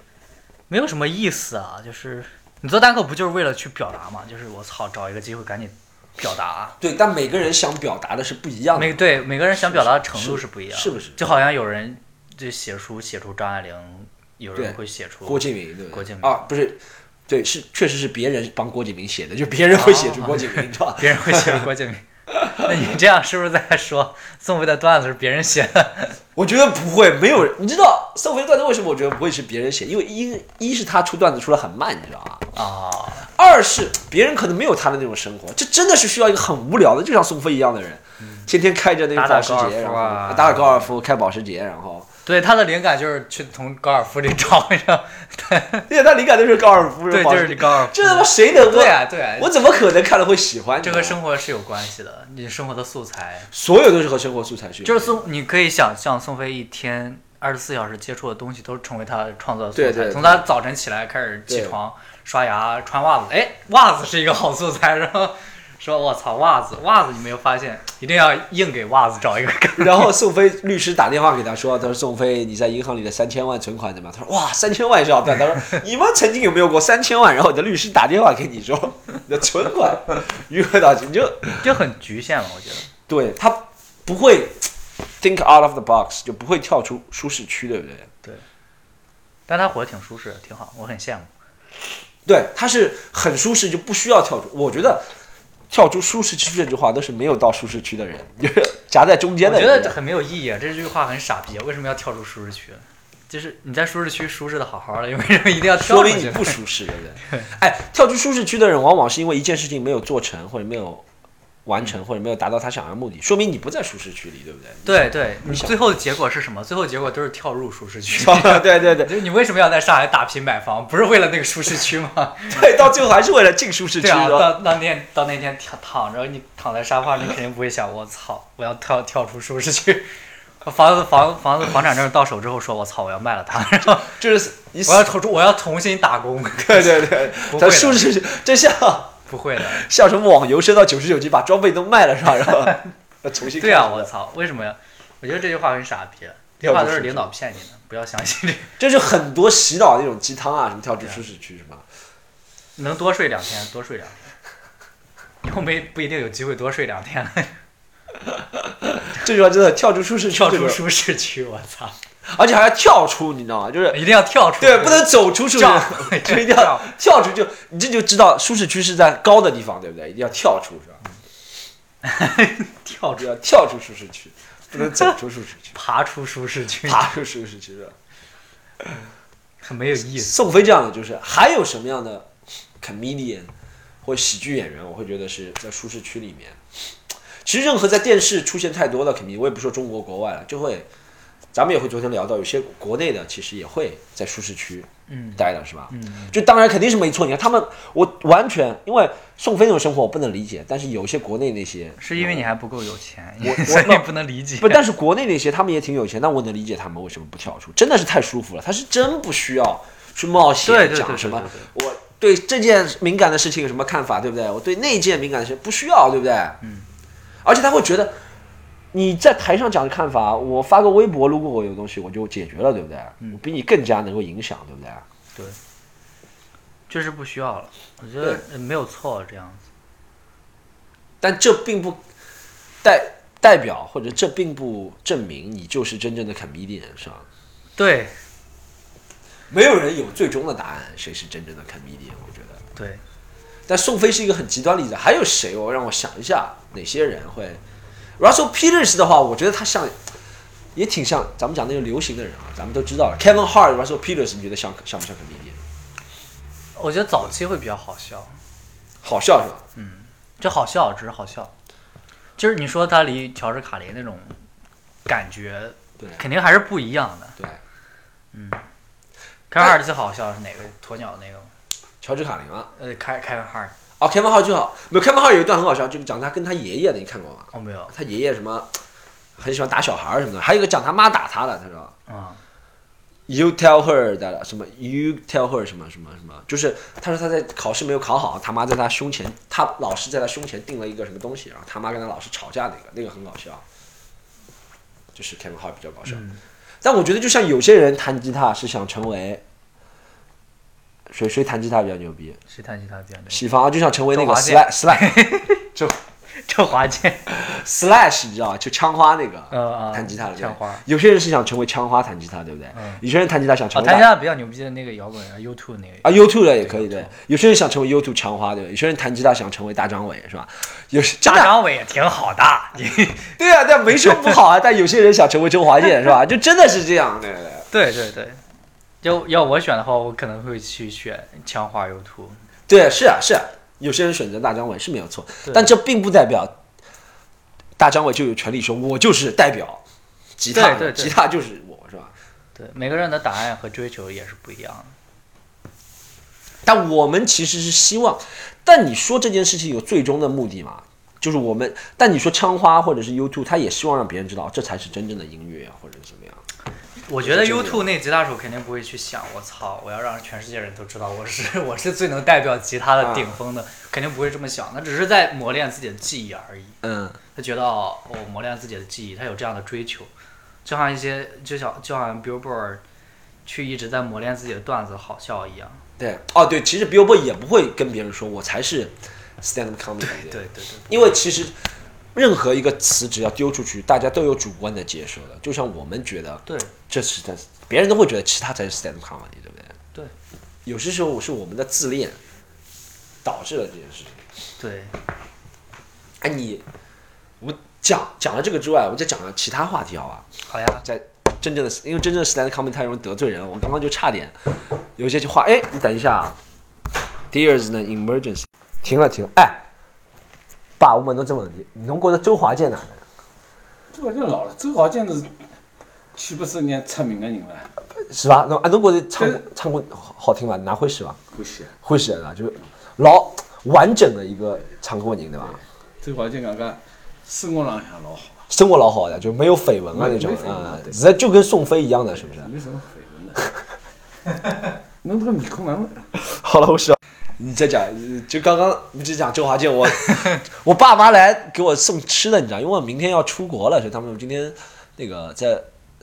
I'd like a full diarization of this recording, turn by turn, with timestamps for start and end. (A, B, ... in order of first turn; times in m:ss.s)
0:00.7-0:06.8 A
0:06.8-0:11.2 B
0:08.8-0:16.4 A
0:14.6-0:21.6 B
0:19.7-0:26.2 A
0:26.4-0:32.5 B
0:32.5-0:33.3 A
0:33.4-0:42.1 B
0:38.2-0:38.5 A
0:39.1-0:40.9 A
0:42.3-0:45.9 A
0:45.9-0:51.2 B
0:47.1-0:49.5 A
0:50.8-0:53.5 A
0:53.5-0:55.2 B
0:54.8-1:10.1 A
0:59.8-1:00.5 B
1:01.5-1:01.8 B
1:09.8-1:21.7 B
1:21.6-1:22.9 A
1:23.1-1:24.7 B
1:25.2-1:28.1 B
1:29.5-1:31.3 A
1:32.3-1:35.1 B
1:35.7-1:40.0 B
1:39.4-1:46.6 A
1:45.8-1:51.0 B
1:51.7-1:55.6 B
1:54.8-2:02.6 A
1:58.2-1:59.1 B
2:02.5-2:04.5 B
2:04.0-2:14.2 A
2:14.1-2:15.1 B
2:14.8-2:18.2 A
2:16.7-2:24.1 B
2:19.3-2:19.9 A
2:22.4-2:22.8 A
2:23.6-2:28.8 A
2:26.6-2:27.3 B
2:28.8-2:31.8 B
2:32.8-2:34.2 A
2:35.4-2:37.5 A
2:39.0-2:40.8 B
2:40.4-2:42.0 A
2:42.3-2:44.0 B
2:43.9-2:46.9 A
2:44.6-2:51.0 B
2:52.0-2:53.3 A
2:53.2-2:55.7 B
2:54.8-2:55.1 A
2:55.7-2:57.0 A
2:56.8-2:58.0 B
2:59.6-3:00.4 A
3:00.2-3:02.3 B
3:02.8-3:03.5 B
3:04.0-3:06.6 B
3:07.4-3:10.9 B
3:11.5-3:22.5 B
3:15.1-3:16.4 A
3:22.0-3:24.8 A
3:23.4-3:24.1 B
3:24.6-3:36.6 B
3:30.6-3:31.7 A
3:36.6-3:36.9 A
3:37.4-3:38.2 B
3:38.9-3:45.0 B
3:46.9-3:49.7 A
3:51.2-3:52.0 B
3:52.8-3:57.3 B
3:57.8-3:58.2 A
3:59.5-4:02.6 B
4:02.8-4:03.0 A
4:03.7-4:07.6 B
4:08.2-4:10.0 B
4:10.8-4:15.6 B
4:16.8-4:18.4 A
4:19.0-4:19.6 B
4:19.8-4:21.5 A
4:22.4-4:24.4 A
4:25.1-4:27.4 A
4:28.3-4:28.6 A
4:29.5-4:31.5 A
4:32.0-4:32.7 B
4:32.8-4:33.7 A
4:34.0-4:38.7 B
4:37.5-4:37.9 A
4:39.4-4:41.9 B
4:42.1-4:42.4 A
4:43.3-4:53.6 B
4:55.2-4:56.2 B
4:56.1-4:56.4 A
4:56.8-4:59.4 B
5:01.1-5:02.4 B
5:02.5-5:03.4 A
5:03.3-5:05.2 B
5:04.1-5:05.7 A
5:06.4-5:07.2 A
5:07.3-5:14.1 B
5:09.5-5:10.8 A
5:12.8-5:13.0 A
5:13.7-5:17.1 A
5:16.0-5:21.6 B
5:21.2-5:23.4 A
5:23.4-5:27.7 B
5:23.9-5:24.4 A
5:27.7-5:28.4 A
5:29.0-5:32.4 A
5:32.7-5:36.6 B
5:35.5-5:35.7 A
5:37.8-5:39.8 B
5:40.4-5:42.1 B
5:40.5-5:41.2 A
5:42.6-5:45.0 A
5:46.6-5:56.4 B
5:57.1-6:06.8 A
5:57.2-5:57.9 B
6:03.0-6:03.3 B
6:06.8-6:07.2 B
6:07.4-6:10.1 A
6:10.6-6:12.8 A
6:13.4-6:15.8 A
6:16.0-6:21.6 B
6:20.0-6:21.2 A
6:22.2-6:29.8 B
6:26.5-6:26.7 A
6:30.7-6:32.2 B
6:33.2-6:34.2 B
6:34.6-6:35.0 A
6:36.2-6:36.6 B
6:37.4-6:40.3 B
6:40.5-6:40.8 A
6:40.8-6:44.4 B
6:45.0-6:46.4 B
6:47.3-6:49.6 B
6:50.8-6:53.0 B
6:53.9-6:55.4 C
6:56.1-6:57.7 C
6:58.0-7:01.2 B
6:59.2-6:59.4 C
7:01.3-7:01.7 C
7:01.8-7:05.6 B
7:06.0-7:08.4 C
7:08.5-7:12.5 B
7:09.9-7:11.0 C
7:12.1-7:13.5 C
7:15.0-7:16.1 C
7:16.2-7:25.7 B